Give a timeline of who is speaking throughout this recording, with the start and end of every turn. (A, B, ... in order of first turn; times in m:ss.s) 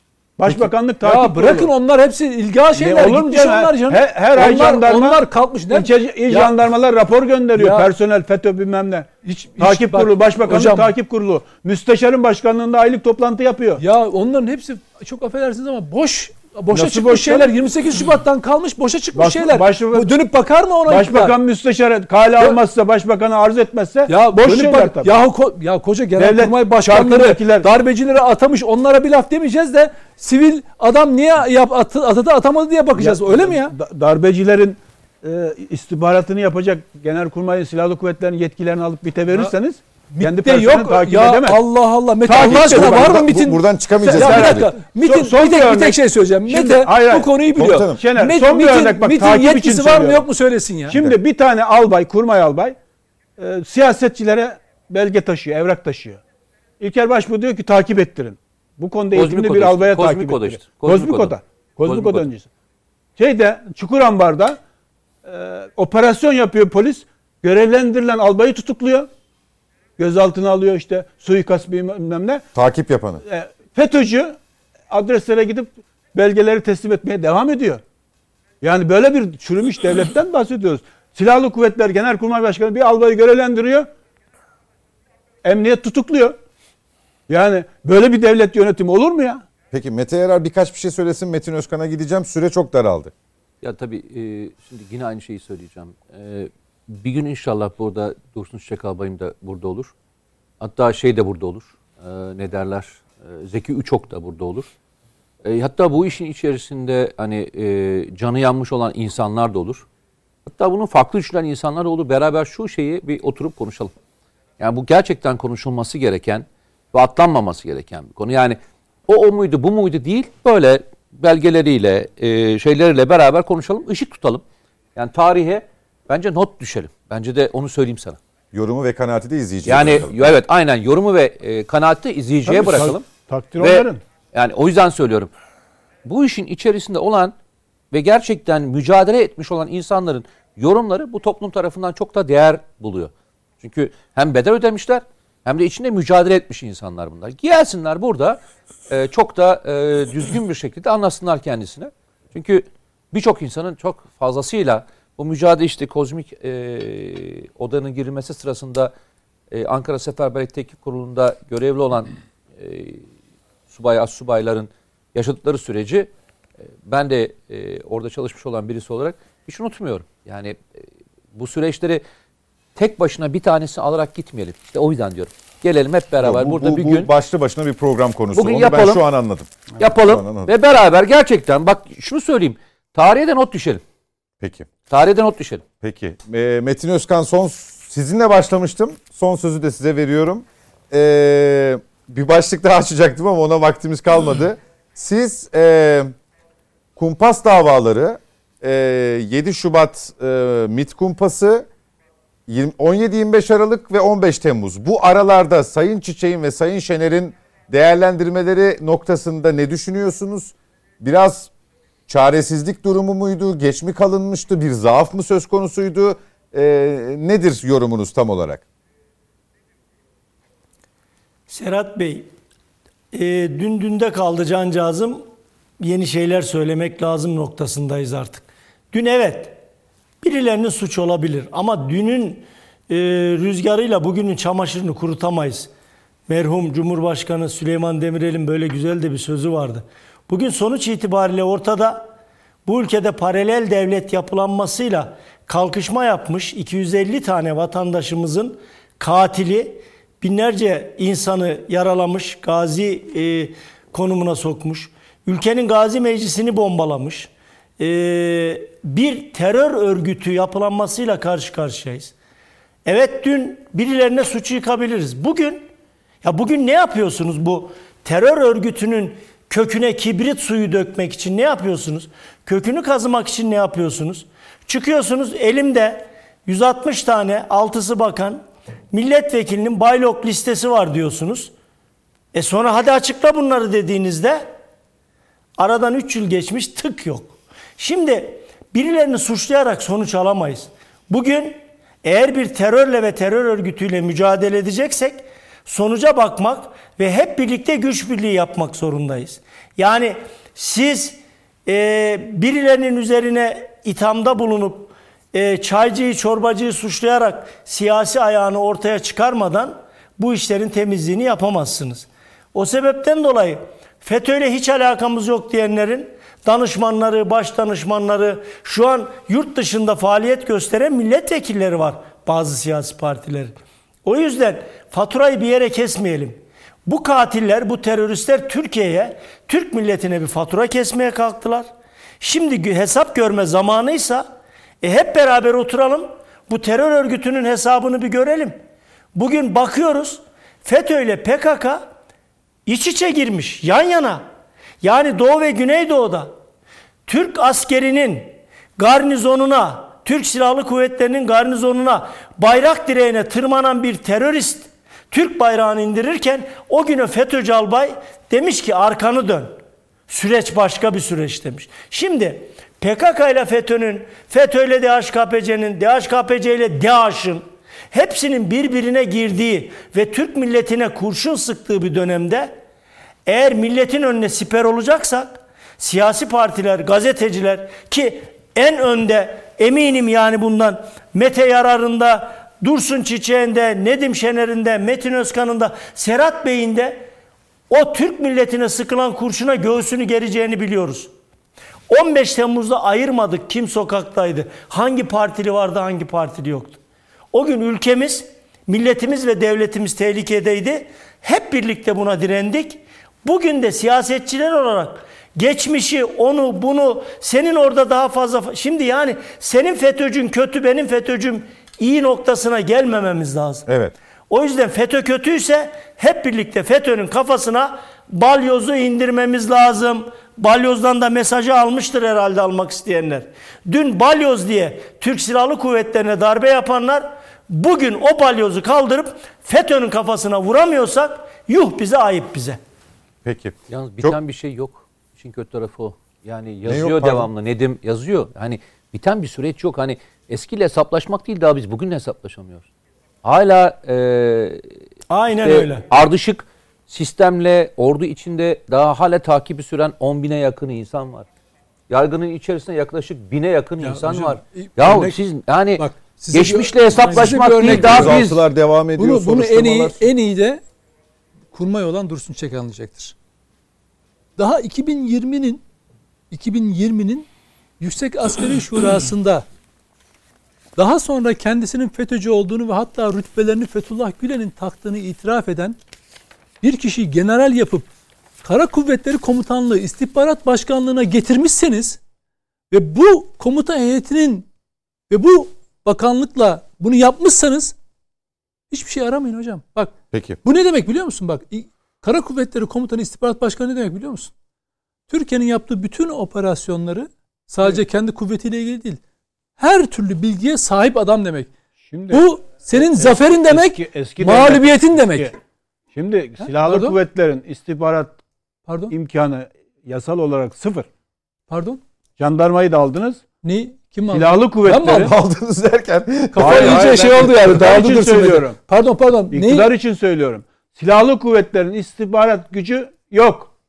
0:00.4-0:01.7 A
0:00.5-0:06.6 B
0:02.7-0:13.8 A
0:07.6-0:07.9 B
0:09.2-0:10.9 B
0:13.8-0:21.3 B
0:16.7-0:17.6 A
0:19.2-0:20.1 A
0:20.9-0:25.2 A
0:24.1-0:33.8 B
0:26.2-0:27.7 A
0:33.0-0:41.6 A
0:39.3-0:39.5 B
0:40.1-0:51.0 B
0:42.2-0:43.3 A
0:42.4-0:44.7 C
0:44.1-0:50.2 A
0:47.6-0:48.0 C
0:50.9-0:52.8 A
0:50.9-0:51.2 C
0:53.4-0:56.2 A
0:56.8-1:02.5 A
0:59.1-1:01.3 D
1:01.8-1:02.3 D
1:03.2-1:04.6 A
1:05.2-1:09.1 A
1:10.0-1:12.4 A
1:12.5-1:13.2 C
1:13.2-1:14.4 A
1:14.9-1:17.8 A
1:18.6-1:23.9 A
1:25.4-1:26.4 A
1:27.3-1:29.4 A
1:29.7-1:33.1 C
1:33.6-1:39.9 D
1:40.6-1:44.7 D
1:45.4-1:49.8 D
1:50.4-1:53.9 D
1:54.6-2:04.4 D
2:05.0-2:08.2 D
2:08.5-2:10.3 C
2:09.6-2:13.1 D
2:12.4-2:14.0 A
2:13.6-2:15.3 D
2:16.0-2:17.3 D
2:17.9-2:38.9 D
2:39.5-2:43.1 D
2:43.7-2:52.0 D
2:52.8-2:57.1 D
2:56.2-3:00.5 C
2:58.3-2:59.0 D
2:59.8-3:03.8 D
3:04.4-3:04.7 C
3:04.8-3:05.6 D
3:05.8-3:16.1 C
3:17.0-3:21.7 C
3:22.5-3:31.5 C
3:32.1-3:38.6 C
3:41.5-3:42.3 E
3:43.1-3:45.2 E
3:45.8-3:49.6 E
3:50.2-3:55.7 E
3:56.3-4:02.1 E
4:02.6-4:22.1 E
4:22.8-4:25.6 E
4:26.2-4:41.5 E
4:42.3-4:44.5 E
4:45.6-5:31.7 E
5:32.2-5:34.3 E
5:34.8-5:38.6 E
5:39.1-5:41.8 E
5:42.6-5:44.2 E
5:44.8-5:46.3 E
5:47.0-5:59.6 E
6:00.1-6:12.5 E
6:13.3-6:27.1 E
6:27.7-6:31.1 E
6:31.9-6:36.8 E
6:37.3-6:53.6 E
6:53.7-6:53.9 C
6:54.3-7:12.6 E
7:13.2-7:14.2 C
7:13.7-7:22.6 D
7:16.6-7:17.3 C
7:23.2-7:24.6 D
7:25.1-7:25.9 E
7:25.4-7:31.3 D
7:31.9-7:38.4 D
7:33.8-7:35.2 B
7:35.8-7:38.3 B
7:37.6-7:39.9 C
7:39.0-7:40.6 B
7:41.5-7:43.1 B
7:44.4-7:45.6 B
7:46.3-7:47.3 B
7:47.8-7:49.4 B
7:50.8-7:55.8 B
7:56.6-7:57.9 B
7:58.4-8:02.0 B
8:02.7-8:04.5 B
8:05.1-8:07.7 B
8:08.7-8:09.9 B
8:10.1-8:10.4 C
8:10.4-8:14.3 B
8:15.1-8:19.0 B
8:19.6-8:21.5 B
8:21.9-8:25.4 A
8:22.1-8:25.3 B
8:25.9-8:28.2 A
8:26.4-8:27.0 B
8:28.7-8:28.9 B
8:28.9-8:30.9 A
8:31.5-8:31.8 B
8:32.2-8:33.2 A
8:33.4-8:35.1 B
8:34.1-8:35.1 A
8:34.8-8:37.8 C
8:36.3-8:39.7 B
8:36.4-8:38.6 A
8:39.3-8:43.5 A